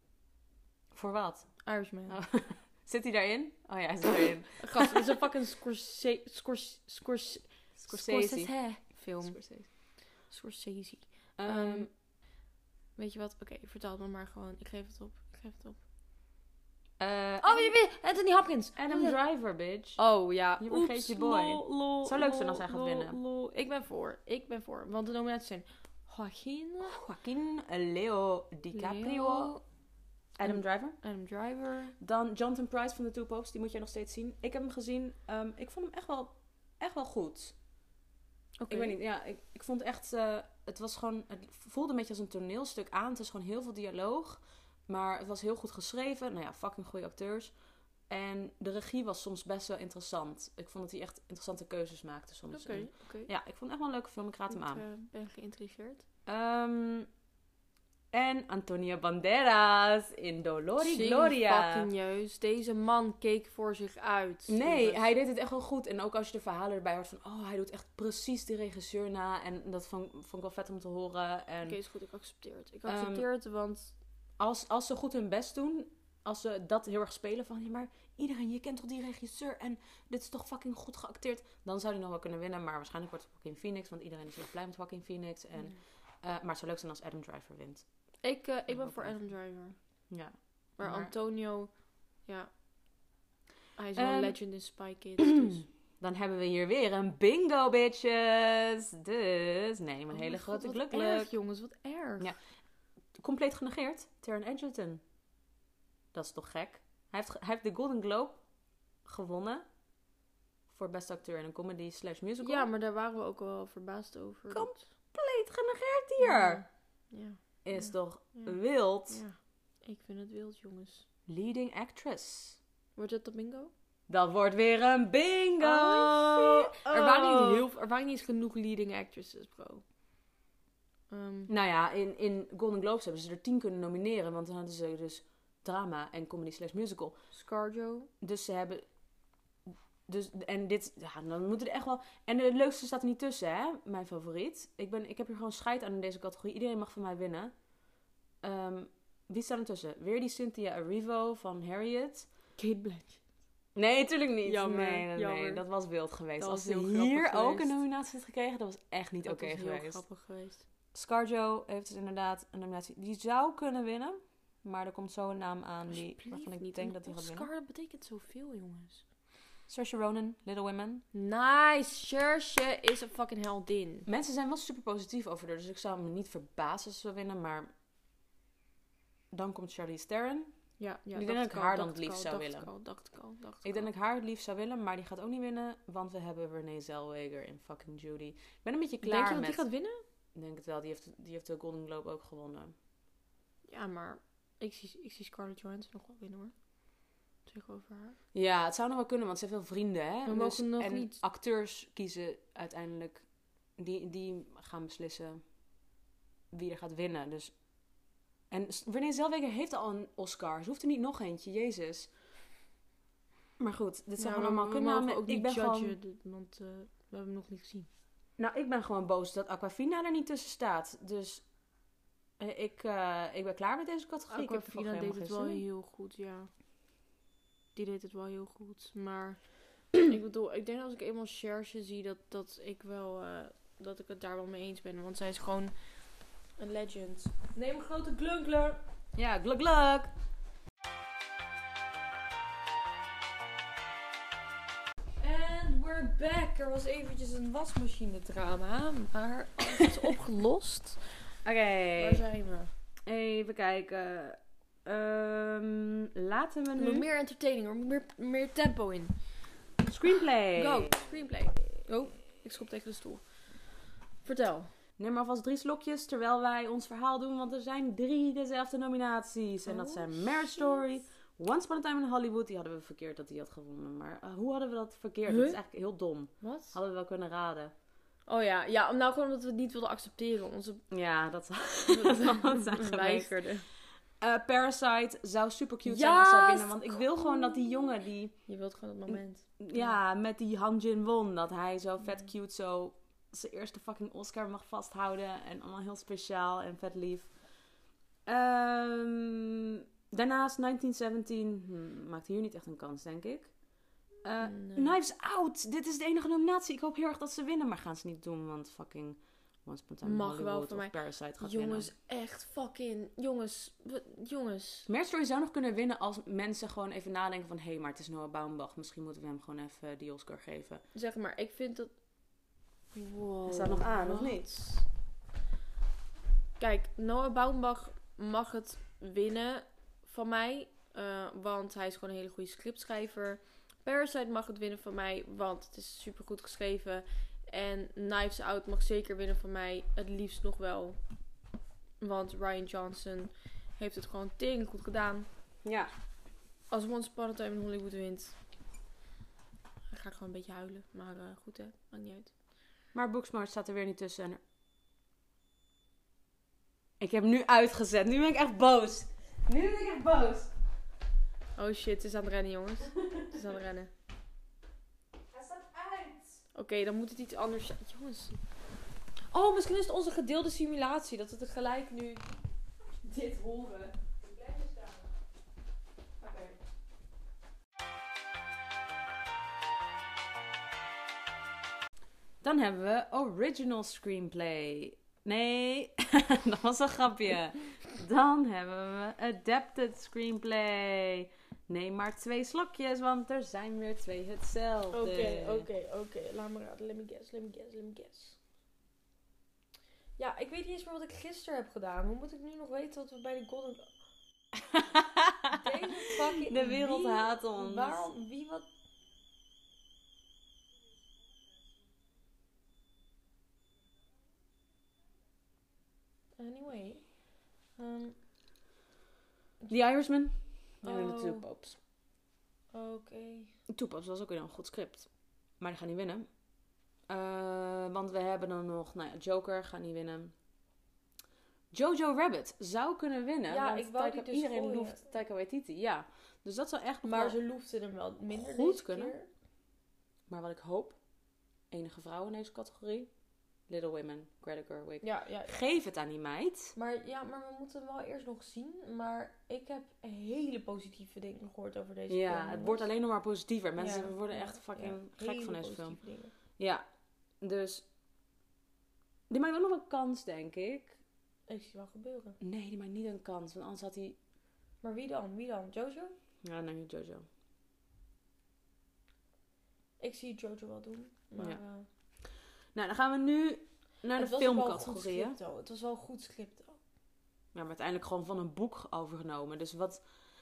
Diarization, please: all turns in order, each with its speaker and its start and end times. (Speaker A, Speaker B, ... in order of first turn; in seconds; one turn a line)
Speaker A: 0.9-5.1
Speaker B: 1.6-2.2
Speaker B: 4.6-11.9
Speaker A: 7.8-8.6
Speaker A: 9.2-9.7
Speaker A: 11.4-11.9
Speaker B: 13.0-15.8
Speaker A: 17.0-17.8
Speaker B: 17.4-19.2
Speaker A: 18.8-20.0
Speaker B: 20.0-27.0
Speaker A: 20.6-23.2
Speaker A: 26.8-29.5
Speaker B: 28.7-29.6
Speaker A: 30.4-31.0
Speaker B: 30.4-31.9
Speaker A: 32.0-37.5
Speaker B: 38.6-39.0
Speaker A: 38.7-47.5
Speaker A: 48.1-54.9
Speaker B: 52.5-53.3
Speaker B: 54.5-56.0
Speaker A: 56.2-57.1
Speaker A: 58.1-61.9
Speaker B: 60.8-65.0
Speaker A: 64.5-71.8
Speaker B: 71.6-73.9
Speaker A: 72.9-73.2
Speaker A: 74.4-87.9
Speaker B: 88.2-89.8
Speaker A: 88.7-89.3
Speaker A: 90.1-91.1
Speaker B: 90.8-91.7
Speaker B: 93.8-95.6
Speaker A: 94.0-94.4
Speaker A: 95.2-101.3
Speaker B: 100.1-102.3
Speaker A: 103.2-105.0
Speaker A: 106.1-108.4
Speaker A: 109.0-109.6
Speaker A: 110.7-112.7
Speaker B: 112.4-114.8
Speaker A: 114.5-116.6
Speaker B: 116.2-121.0
Speaker A: 117.6-119.2
Speaker A: 121.3-122.6
Speaker B: 123.0-123.7
Speaker A: 124.1-127.7
Speaker B: 125.6-129.8
Speaker B: 131.1-131.5
Speaker A: 131.5-137.2
Speaker B: 137.3-138.1
Speaker A: 138.2-138.8
Speaker A: 139.7-147.5
Speaker A: 148.4-152.3
Speaker B: 152.6-153.2
Speaker A: 153.8-160.0
Speaker B: 154.4-155.6
Speaker B: 156.4-157.8
Speaker B: 159.2-160.6
Speaker A: 160.9-167.5
Speaker B: 165.9-169.0
Speaker A: 169.7-171.0
Speaker B: 171.1-174.1
Speaker A: 174.1-177.7
Speaker A: 179.3-180.5
Speaker B: 180.8-183.9
Speaker A: 181.1-182.7
Speaker A: 183.6-189.6
Speaker B: 189.0-190.0
Speaker A: 190.3-192.8
Speaker B: 193.7-196.5
Speaker B: 197.5-198.2
Speaker A: 198.3-203.2
Speaker B: 200.2-201.2
Speaker A: 203.8-205.4
Speaker A: 206.5-207.5
Speaker A: 208.5-212.1
Speaker A: 213.6-216.0
Speaker B: 214.2-217.9
Speaker A: 218.4-221.4
Speaker A: 222.4-225.6
Speaker B: 224.3-226.5
Speaker B: 227.8-235.8
Speaker B: 236.6-238.8
Speaker A: 239.1-240.1
Speaker B: 245.2-251.3
Speaker A: 251.4-252.2
Speaker B: 252.0-252.7
Speaker A: 253.1-257.1
Speaker B: 256.8-259.1
Speaker A: 259.8-261.0
Speaker B: 260.5-263.2
Speaker B: 264.2-264.7
Speaker A: 265.0-277.7
Speaker B: 269.6-270.9
Speaker B: 275.3-275.6
Speaker B: 276.4-276.8
Speaker B: 278.3-280.8
Speaker A: 280.9-288.3
Speaker B: 281.9-283.6
Speaker B: 285.9-287.9
Speaker B: 288.5-290.0
Speaker A: 289.1-297.3
Speaker A: 298.2-303.5
Speaker A: 304.2-311.9
Speaker B: 304.4-305.0
Speaker B: 310.0-314.9
Speaker A: 314.9-320.8
Speaker B: 320.9-321.9
Speaker B: 322.9-324.8
Speaker A: 323.5-324.6
Speaker B: 326.6-341.0
Speaker B: 342.0-345.3
Speaker A: 345.6-345.9
Speaker B: 346.7-348.4
Speaker B: 349.9-352.3
Speaker A: 352.9-354.4
Speaker A: 357.0-360.5
Speaker B: 361.6-363.9
Speaker A: 365.3-366.4
Speaker B: 366.5-368.4
Speaker B: 369.3-372.4
Speaker B: 373.1-375.0
Speaker B: 376.2-376.6
Speaker A: 382.4-395.7
Speaker B: 394.9-398.4
Speaker B: 400.2-403.9
Speaker A: 404.5-408.1
Speaker B: 405.5-408.7
Speaker B: 416.4-417.1
Speaker B: 417.8-418.2
Speaker A: 419.7-421.8
Speaker B: 420.8-421.5
Speaker B: 422.7-423.5
Speaker A: 423.7-425.1
Speaker A: 425.6-426.3
Speaker A: 427.1-430.3
Speaker A: 431.7-437.4
Speaker B: 433.5-435.1
Speaker B: 437.0-439.3
Speaker A: 438.3-439.1
Speaker A: 440.3-441.0
Speaker A: 441.7-443.1
Speaker A: 443.7-446.8
Speaker B: 445.0-445.6
Speaker B: 446.8-452.9
Speaker A: 452.1-456.0
Speaker B: 453.8-456.3
Speaker A: 456.6-456.8
Speaker A: 457.4-457.8
Speaker A: 459.3-461.0
Speaker B: 461.5-462.4
Speaker A: 462.4-464.2
Speaker B: 464.8-466.1
Speaker A: 466.4-467.2
Speaker B: 470.0-471.9
Speaker A: 472.8-475.4
Speaker B: 474.2-476.8
Speaker A: 477.5-480.0